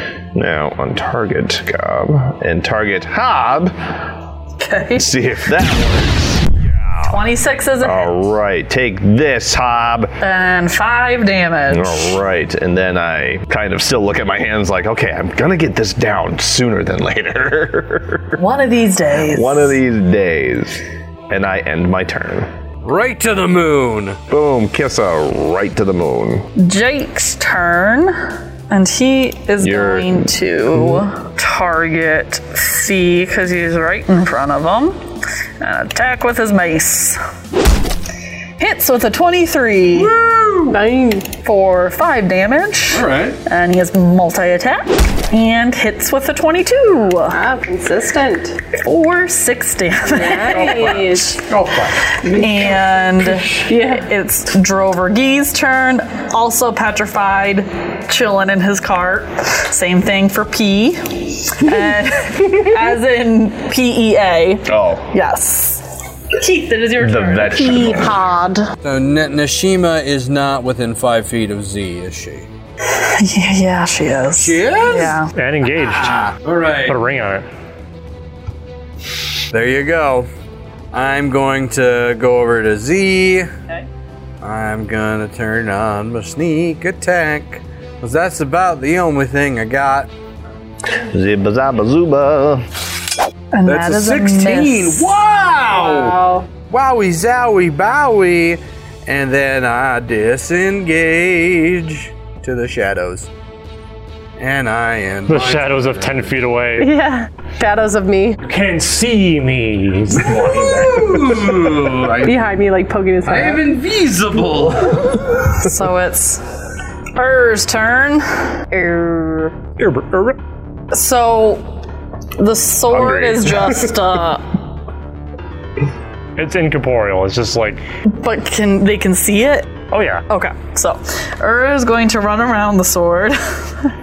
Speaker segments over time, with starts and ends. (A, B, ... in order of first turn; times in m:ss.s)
0:00.3-0:03.8 A
0:04.6-0:05.1 B
0:05.0-0:07.2 A
0:07.0-0:08.1 B
0:07.8-0:10.1 A
0:10.2-0:12.2 B
0:11.7-0:18.4 A
0:18.4-0:19.8 B
0:19.3-0:22.5 A
0:22.8-0:24.2 C
0:24.3-0:26.5 A
0:26.6-0:35.0 B
0:29.6-0:30.3 A
0:35.6-0:37.2 B
0:38.6-0:40.1 B
0:39.9-0:40.8 C
0:40.7-0:41.3 D
0:41.4-0:47.4 B
0:42.9-0:43.4 C
0:47.3-0:48.6 D
0:48.8-0:51.4 B
0:50.0-0:51.4 D
0:50.5-0:52.1 C
0:52.2-1:05.8 B
0:53.6-0:54.0 D
1:04.7-1:05.1 A
1:06.4-1:08.6 B
1:07.0-1:08.2 A
1:08.8-1:12.5 C
1:12.9-1:15.3 B
1:14.4-1:15.2 C
1:15.3-1:16.3 E
1:16.0-1:17.0 C
1:16.9-1:17.5 E
1:19.5-1:20.3 C
1:20.9-1:23.5 C
1:24.4-1:30.1 C
1:30.9-1:32.7 A
1:33.5-1:35.2 B
1:33.7-1:43.3 C
1:35.7-1:36.5 D
1:44.4-1:46.3 C
1:45.3-1:47.0 E
1:46.8-1:48.4 D
1:48.4-1:51.2 E
1:50.6-1:52.4 C
1:52.2-1:53.6 D
1:53.2-1:55.2 C
1:55.5-1:56.4 B
1:57.2-1:58.4 B
1:58.7-1:59.6 D
1:59.8-2:00.4 E
2:00.9-2:01.8 B
2:02.4-2:04.6 B
2:03.0-2:03.4 A
2:06.4-2:07.8 E
2:08.1-2:09.7 B
2:09.9-2:10.2 E
2:10.3-2:13.9 B